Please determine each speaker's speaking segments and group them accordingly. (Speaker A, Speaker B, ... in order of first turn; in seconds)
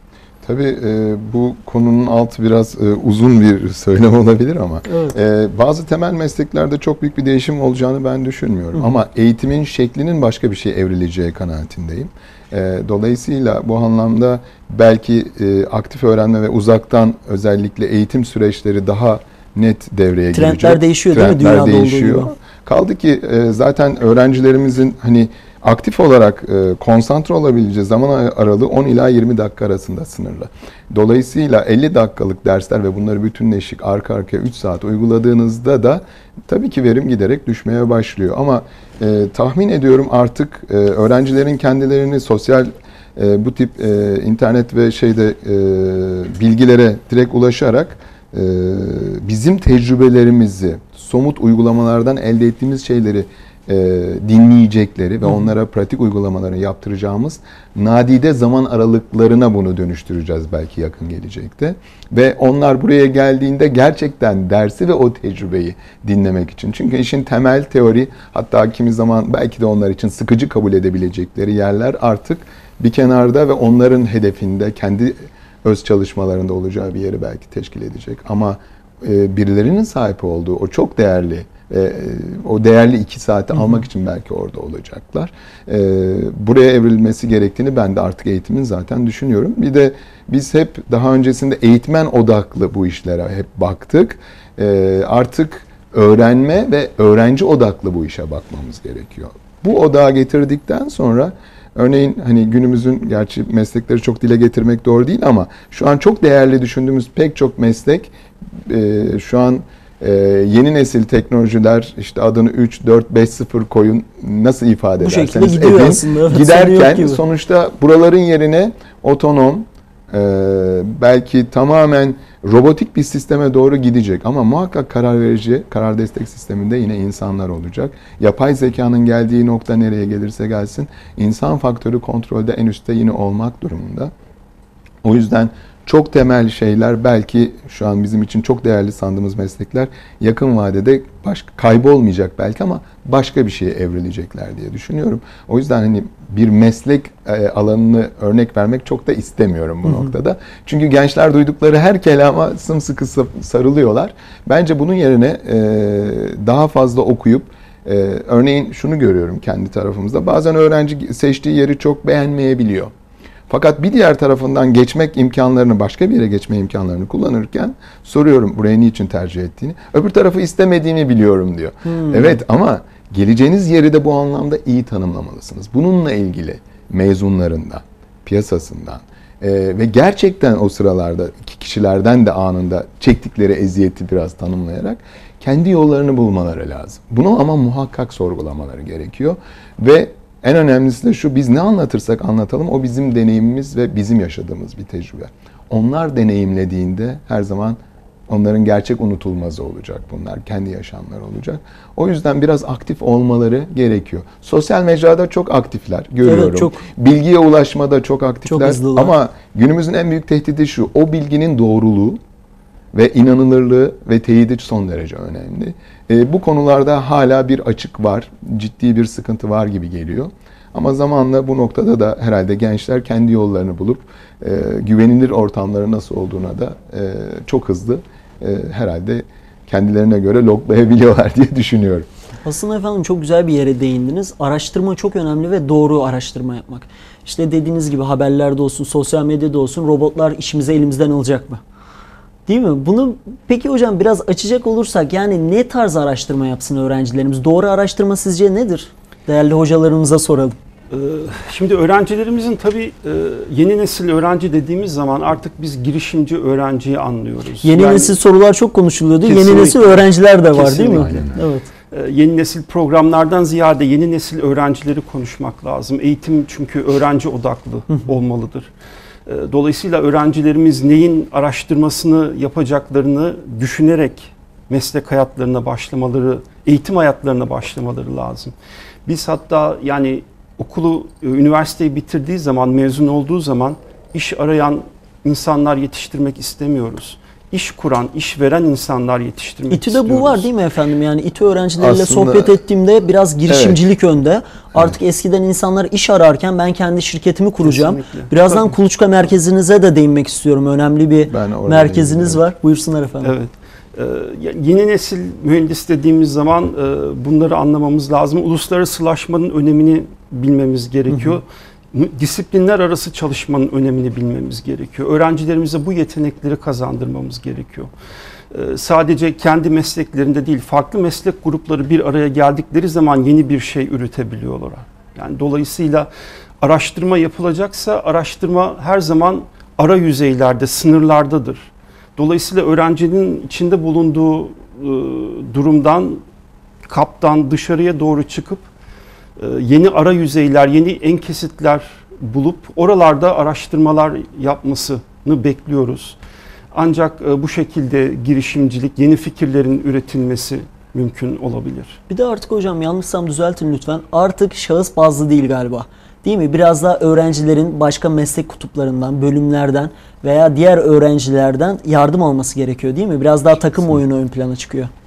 Speaker A: 0.4-108.1, 108.7-134.1, 135.0-162.9, 163.5-212.2, 212.9-232.1, 260.9-261.5, 291.8-292.6, 293.5-293.8, 301.3-302.4
Speaker B: 4.9-5.2, 20.3-22.3, 115.0-117.2, 149.9-150.1, 171.9-172.4, 206.2-206.8, 208.5-209.1, 232.4-241.6, 242.5-250.6, 257.6-261.7, 289.7-303.4, 311.1-311.4, 352.1-364.9
Speaker C: 250.9-258.2, 259.2-261.3, 261.9-268.7, 269.3-278.5, 279.1-290.5, 297.6-298.8, 303.2-317.9, 318.5-326.1, 326.6-336.2, 336.9-338.6, 339.4-346.2, 346.7-352.0